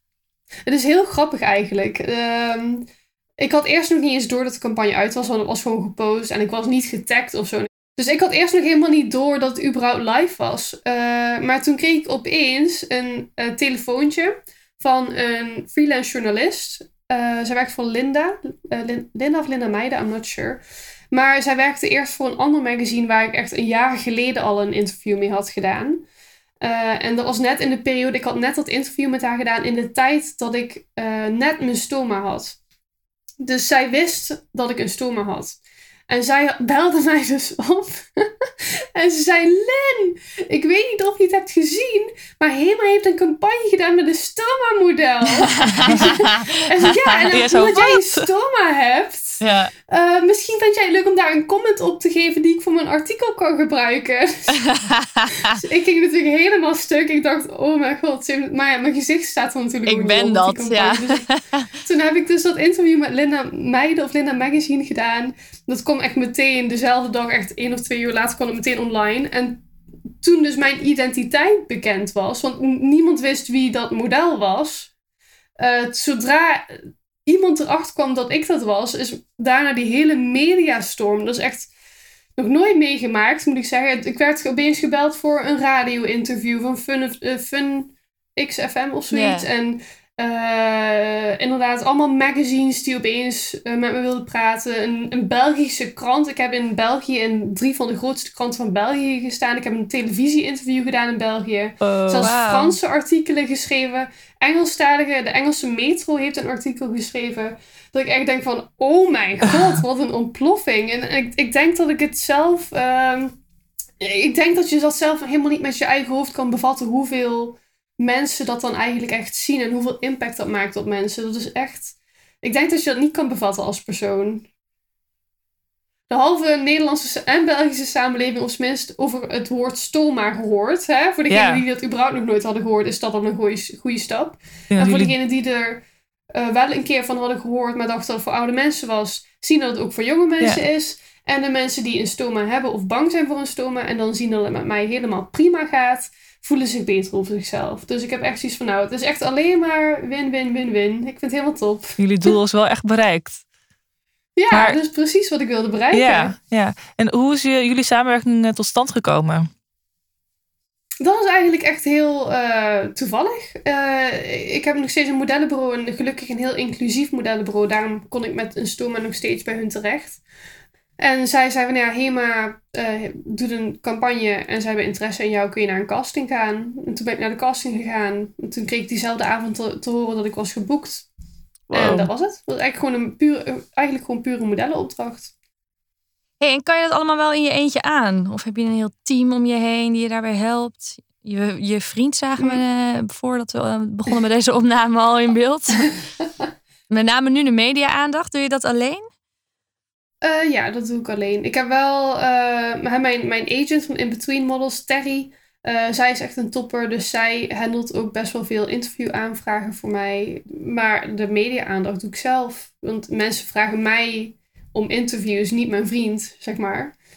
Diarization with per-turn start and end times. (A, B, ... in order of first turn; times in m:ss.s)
0:00.7-0:02.8 A
0:03.4-0:26.0 A
0:26.6-0:32.6 A
0:33.4-0:38.3 A
0:38.9-0:54.6 A
0:45.4-0:47.3 B
0:47.3-0:48.2 C
0:49.4-0:49.7 B
0:54.5-0:55.6 B
0:55.5-1:01.2 A
0:59.8-1:01.7 B
1:01.8-1:09.6 A
1:10.2-1:14.9 A
1:15.6-1:21.7 A
1:22.4-1:53.4 A
1:29.1-1:29.5 B
1:41.8-1:42.3 C
1:42.2-1:42.8 B
1:54.0-2:04.5 A
2:06.1-2:32.3 A
2:11.3-2:11.6 C
2:14.7-2:15.1 C
2:32.0-2:33.4 C
2:34.4-2:36.3 A
2:34.5-2:34.8 C
2:35.9-2:39.5 C
2:41.0-2:50.2 A
2:51.0-3:01.1 A
3:01.7-3:02.1 C
3:01.7-3:05.3 A
3:06.4-3:16.0 B
3:12.4-3:12.6 A
3:16.9-3:19.0 B
3:20.2-3:36.9 A